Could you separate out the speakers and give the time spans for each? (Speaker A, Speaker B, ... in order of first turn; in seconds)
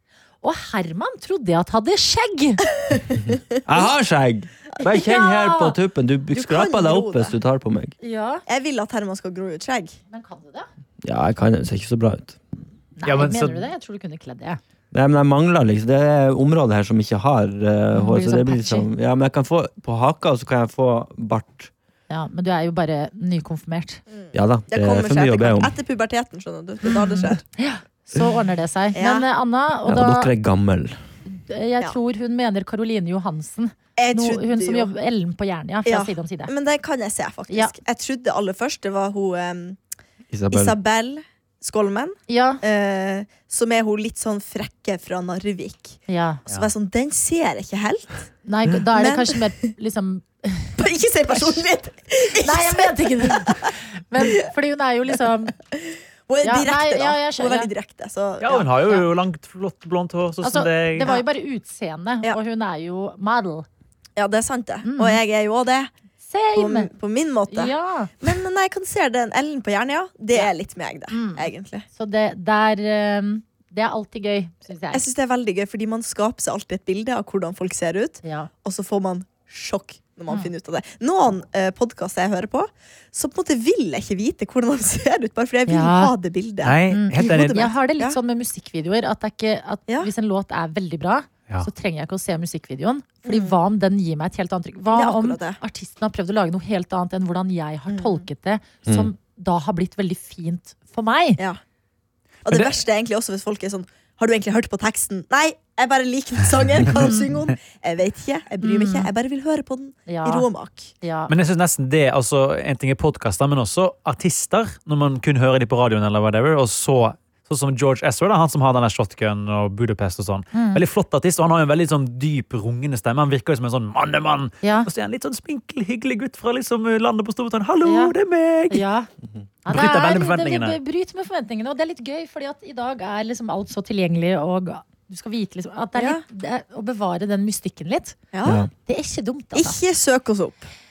Speaker A: 0.4-2.6, 4.9-5.8, 8.0-8.4, 10.1-10.7, 13.0-14.6, 17.9-18.9, 22.1-24.0, 26.8-30.3, 31.2-36.5, 42.3-42.6, 46.1-46.4, 48.4-50.7, 52.4-55.5, 56.4-57.7, 58.5-59.1, 60.4-63.7, 64.8-65.2, 66.3-66.9, 67.5-68.1, 71.1-75.0, 78.2-78.5, 85.7-86.1, 86.9-101.4, 108.6-109.1, 110.1-110.5, 111.0-111.3, 120.5-120.8, 124.6-124.9, 127.8-128.1, 128.7-129.1, 129.6-138.2, 138.8-139.8
Speaker B: 3.6-8.0, 11.0-12.4, 14.9-21.7, 24.3-25.8, 29.9-31.0, 40.3-40.8, 98.8-99.1, 138.4-138.7
Speaker C: 6.3-7.3, 8.4-10.0, 24.1-27.4, 28.9-29.2, 34.0-34.9, 35.8-39.8, 40.5-48.3, 48.9-49.4, 50.8-54.4, 55.7-58.5, 64.2-65.9, 66.5-71.8, 74.9-88.2, 93.2-93.6, 94.9-95.6, 97.9-98.2, 102.4-110.9, 135.9-136.2, 138.3-138.7, 139.5-140.6
Speaker D: 13.1-13.6, 58.4-61.1, 86.6-87.7, 102.5-102.7, 111.3-128.8, 129.7-130.8